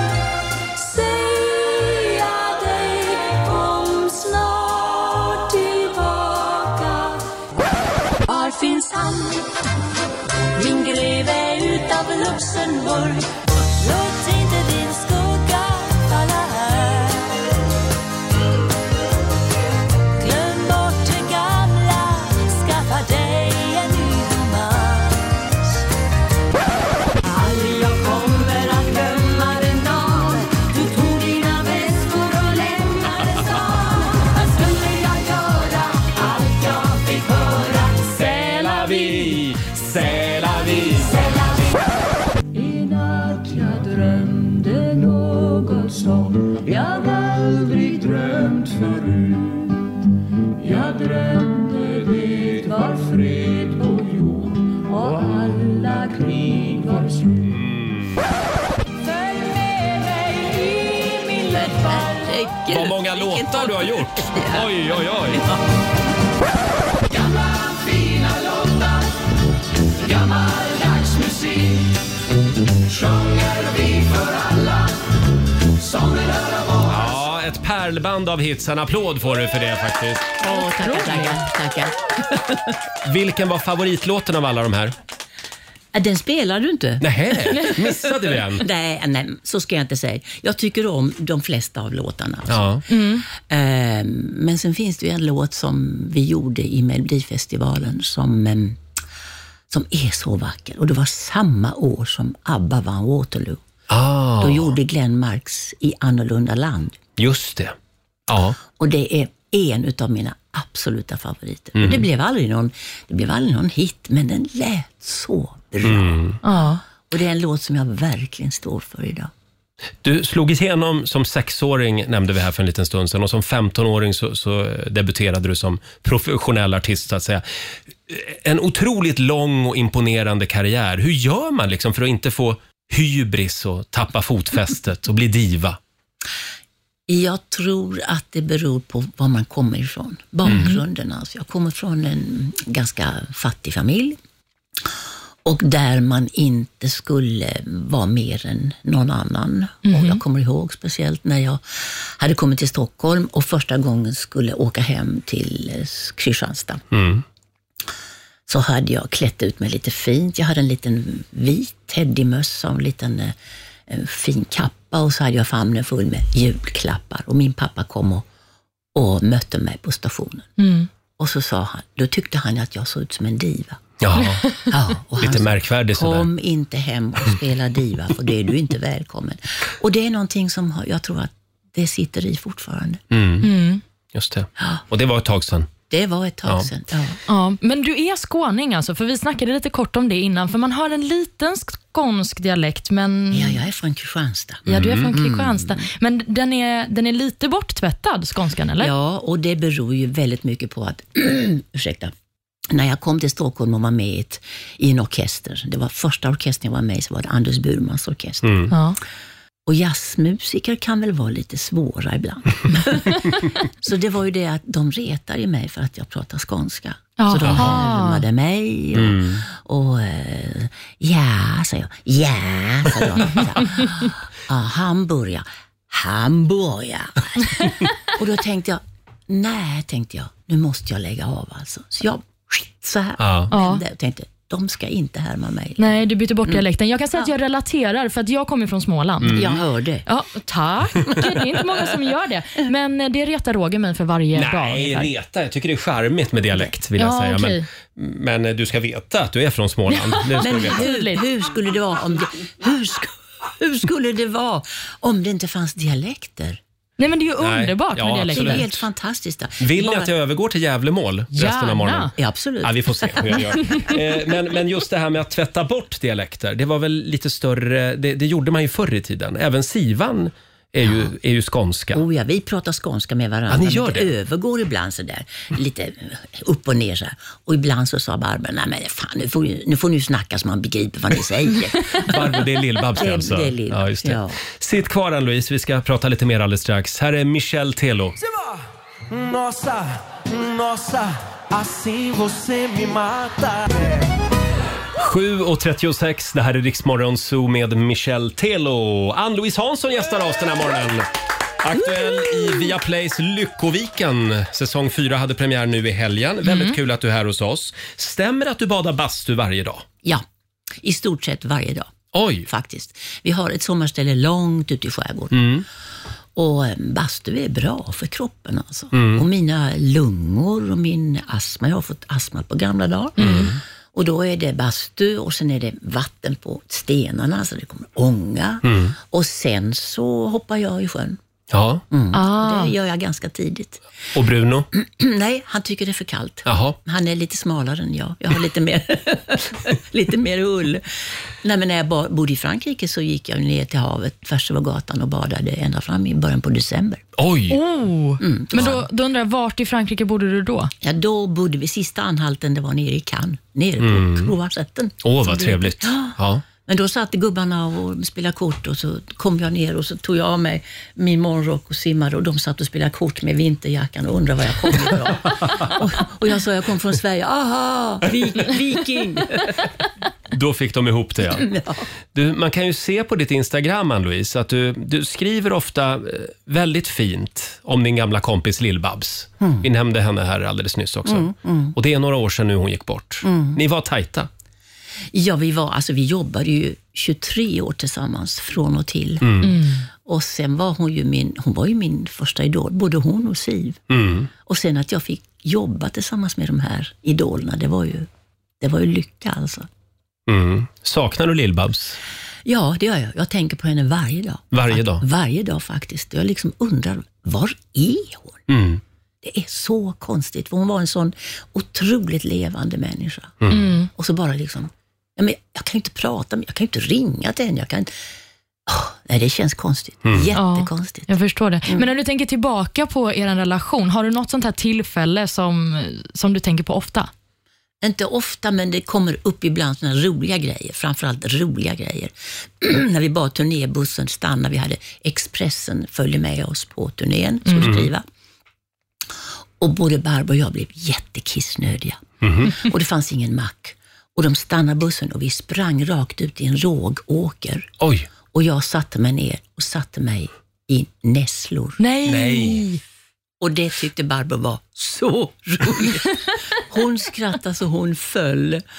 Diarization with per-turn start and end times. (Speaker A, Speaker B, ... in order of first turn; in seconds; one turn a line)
Speaker A: 0.8-7.3
Speaker A: 8.2-9.5
Speaker A: 10.5-13.2
Speaker A: 13.8-17.4
Speaker A: 20.2-25.2
Speaker A: 27.2-38.1
Speaker B: 38.1-41.3
Speaker A: 40.7-41.8
Speaker A: 42.5-49.7
Speaker A: 50.6-57.4
Speaker B: 57.4-58.3
Speaker A: 59.0-62.6
Speaker C: 61.5-64.7
Speaker B: 62.7-65.4
Speaker D: 67.2-68.9
Speaker D: 70.0-71.9
Speaker D: 72.9-74.9
Speaker D: 75.8-76.9
Speaker B: 76.9-80.3
Speaker C: 80.4-82.7
Speaker E: 80.4-81.4
Speaker B: 83.0-84.9
Speaker C: 85.9-98.8
Speaker B: 87.0-88.6
Speaker B: 92.5-92.8
Speaker E: 92.9-93.2
Speaker C: 99.7-103.6
Speaker B: 103.9-104.7
Speaker C: 104.4-107.0
Speaker B: 107.2-107.7
Speaker B: 108.3-108.6
Speaker C: 108.7-116.2
Speaker B: 111.8-112.0
Speaker B: 115.8-116.4
Speaker E: 116.4-116.8
Speaker C: 117.1-119.3
Speaker B: 120.0-127.4
Speaker B: 128.1-135.8
Speaker C: 137.1-144.2
Speaker E: 140.5-140.8
Speaker C: 145.4-156.8
Speaker E: 149.8-150.2
Speaker B: 156.9-157.2
Speaker C: 158.5-163.3
Speaker C: 163.9-168.2
Speaker C: 168.9-170.5
Speaker E: 170.6-170.9
Speaker C: 171.2-173.8
Speaker B: 174.0-174.5
Speaker C: 174.7-183.0
Speaker B: 175.2-176.3
Speaker B: 183.1-183.5
Speaker E: 183.4-183.8
Speaker B: 184.1-185.7
Speaker C: 185.9-187.2
Speaker E: 187.3-193.6
Speaker C: 193.3-195.9
Speaker E: 194.7-198.9
Speaker B: 194.7-195.1
Speaker C: 198.8-202.1
Speaker C: 202.7-208.7
Speaker B: 208.4-208.7
Speaker E: 208.7-209.0
Speaker C: 209.7-237.3
Speaker E: 217.2-218.2
Speaker B: 217.4-217.7
Speaker B: 218.9-219.4
Speaker B: 233.2-233.5
Speaker E: 233.5-233.8
Speaker E: 235.8-239.4
Speaker B: 239.2-239.6
Speaker C: 239.3-240.1
Speaker E: 240.1-245.1
Speaker B: 244.3-250.9
Speaker E: 247.0-247.6
Speaker E: 249.9-251.2
Speaker C: 250.4-256.6
Speaker E: 257.0-258.6
Speaker B: 257.4-258.8
Speaker C: 258.3-260.1
Speaker B: 259.6-272.0
Speaker E: 261.3-262.1
Speaker C: 262.1-263.6
Speaker C: 270.8-271.1
Speaker C: 271.9-282.3
Speaker B: 273.5-274.1
Speaker B: 282.0-288.2
Speaker C: 282.9-284.4
Speaker D: 289.1-294.1
Speaker B: 295.0-301.1
Speaker B: 301.6-309.8
Speaker E: 306.4-306.8
Speaker C: 310.8-315.6
Speaker B: 312.1-312.5
Speaker B: 315.3-315.6
Speaker C: 316.4-331.2
Speaker B: 318.9-319.2
Speaker B: 323.2-323.6
Speaker B: 328.6-328.9
Speaker B: 331.5-331.8
Speaker C: 331.9-333.8
Speaker E: 332.1-332.7
Speaker B: 334.1-334.7
Speaker C: 334.7-347.0
Speaker B: 336.4-336.8
Speaker B: 347.2-347.6
Speaker E: 347.5-350.7
Speaker C: 348.2-348.8
Speaker C: 350.8-369.7
Speaker B: 353.8-354.3
Speaker B: 355.0-356.4
Speaker B: 370.3-371.5
Speaker C: 371.2-371.9
Speaker B: 372.1-384.3
Speaker C: 379.4-379.7
Speaker C: 381.1-381.8
Speaker C: 383.2-383.6
Speaker C: 385.1-389.5
Speaker B: 389.2-389.6
Speaker E: 389.4-389.8
Speaker C: 390.0-393.8
Speaker B: 393.9-394.3
Speaker C: 394.4-398.1
Speaker C: 398.6-399.7
Speaker B: 400.3-402.0
Speaker C: 402.4-408.4
Speaker B: 404.5-405.0
Speaker B: 408.5-408.8
Speaker C: 409.2-417.9
Speaker B: 413.4-413.7
Speaker E: 413.5-413.9
Speaker C: 418.7-421.9
Speaker B: 420.0-420.3
Speaker E: 420.3-427.1
Speaker C: 427.8-438.0
Speaker E: 437.4-437.7
Speaker B: 437.6-437.9
Speaker C: 439.6-447.7
Speaker B: 442.2-442.5
Speaker B: 447.8-448.1
Speaker C: 448.3-451.8
Speaker E: 451.8-452.8
Speaker B: 452.1-452.6
Speaker C: 453.4-458.6